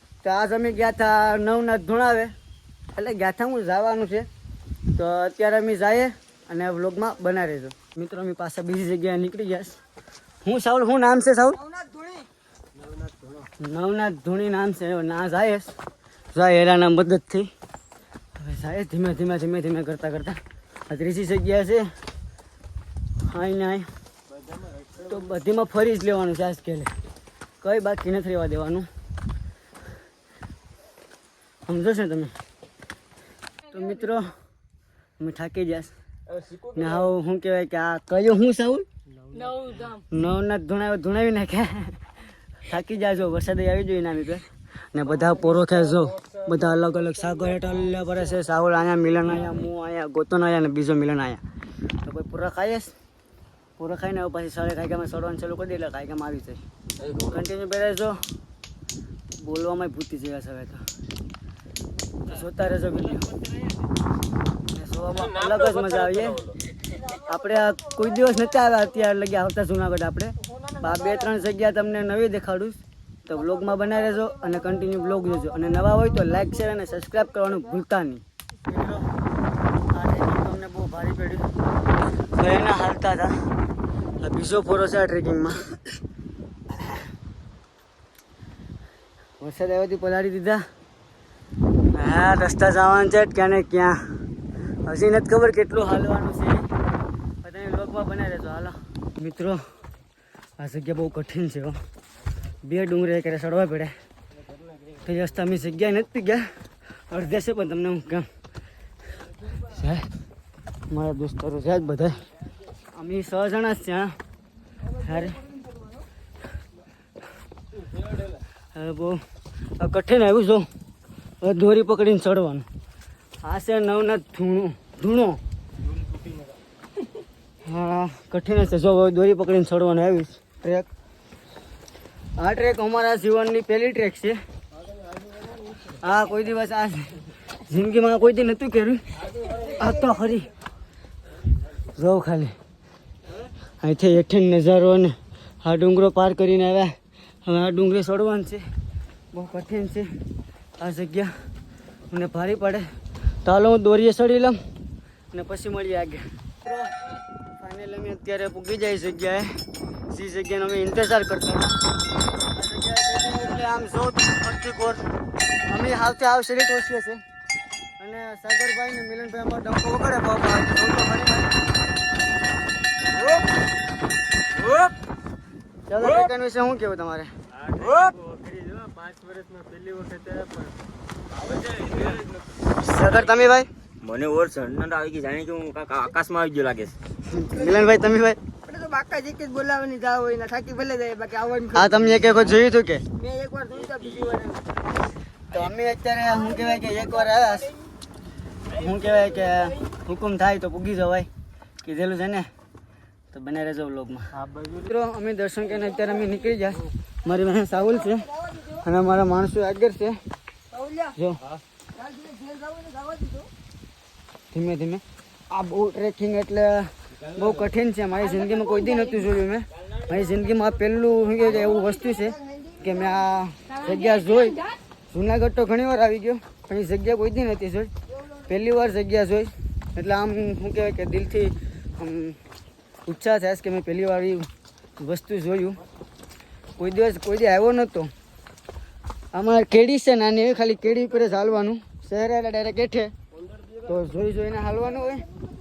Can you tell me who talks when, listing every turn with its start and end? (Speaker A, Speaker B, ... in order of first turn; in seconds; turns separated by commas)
Speaker A: 0.2-2.3, Speaker A: 2.9-4.3, Speaker A: 5.0-9.8, Speaker A: 10.4-11.7, Speaker A: 13.6-15.7, Speaker A: 16.3-17.5, Speaker A: 18.4-21.9, Speaker A: 23.2-23.9, Speaker A: 25.0-26.9, Speaker A: 27.6-28.9, Speaker A: 31.7-32.3, Speaker A: 33.7-34.3, Speaker A: 35.2-35.9, Speaker A: 36.6-38.9, Speaker A: 39.9-42.0, Speaker A: 42.7-51.4, Speaker A: 52.0-52.9, Speaker A: 53.8-56.6, Speaker B: 57.0-57.3, Speaker A: 57.2-58.2, Speaker A: 59.4-60.8, Speaker A: 62.2-63.3, Speaker A: 64.7-79.1, Speaker A: 79.9-81.5, Speaker A: 82.3-83.4, Speaker A: 84.2-85.8, Speaker A: 89.4-90.6, Speaker A: 91.9-94.0, Speaker A: 94.9-96.7, Speaker A: 97.4-99.6, Speaker A: 100.6-101.8, Speaker A: 102.6-103.9, Speaker A: 105.0-106.5, Speaker A: 107.1-108.3, Speaker A: 109.6-110.1, Speaker A: 110.9-112.2, Speaker A: 112.9-114.1, Speaker A: 115.0-115.5, Speaker A: 118.7-119.2, Speaker A: 119.8-120.7, Speaker A: 121.4-122.7, Speaker A: 123.4-125.4, Speaker A: 127.6-130.9, Speaker A: 132.4-134.4, Speaker A: 135.9-140.5, Speaker A: 142.0-142.5, Speaker A: 143.8-148.6, Speaker A: 149.3-150.1, Speaker A: 150.8-151.3, Speaker A: 152.1-152.8, Speaker A: 153.4-154.6, Speaker A: 155.3-157.0, Speaker A: 157.6-159.5, Speaker A: 160.1-161.8, Speaker A: 162.5-165.1, Speaker A: 165.7-167.2, Speaker A: 168.0-171.5, Speaker B: 174.6-174.9, Speaker A: 175.9-177.3, Speaker B: 177.7-178.2, Speaker C: 178.3-180.7, Speaker B: 181.4-182.4, Speaker A: 182.8-183.7, Speaker B: 184.0-187.0, Speaker A: 187.2-188.4, Speaker C: 188.7-192.3, Speaker A: 191.7-193.0, Speaker C: 193.1-194.6, Speaker B: 193.7-194.4, Speaker A: 195.5-197.7, Speaker A: 198.7-201.3, Speaker A: 201.8-202.5, Speaker A: 203.3-210.2, Speaker A: 211.2-211.4, Speaker C: 212.0-213.5, Speaker A: 214.5-227.9, Speaker A: 228.5-232.4, Speaker A: 233.1-235.8, Speaker A: 236.8-238.1, Speaker A: 239.3-243.1, Speaker A: 243.8-245.2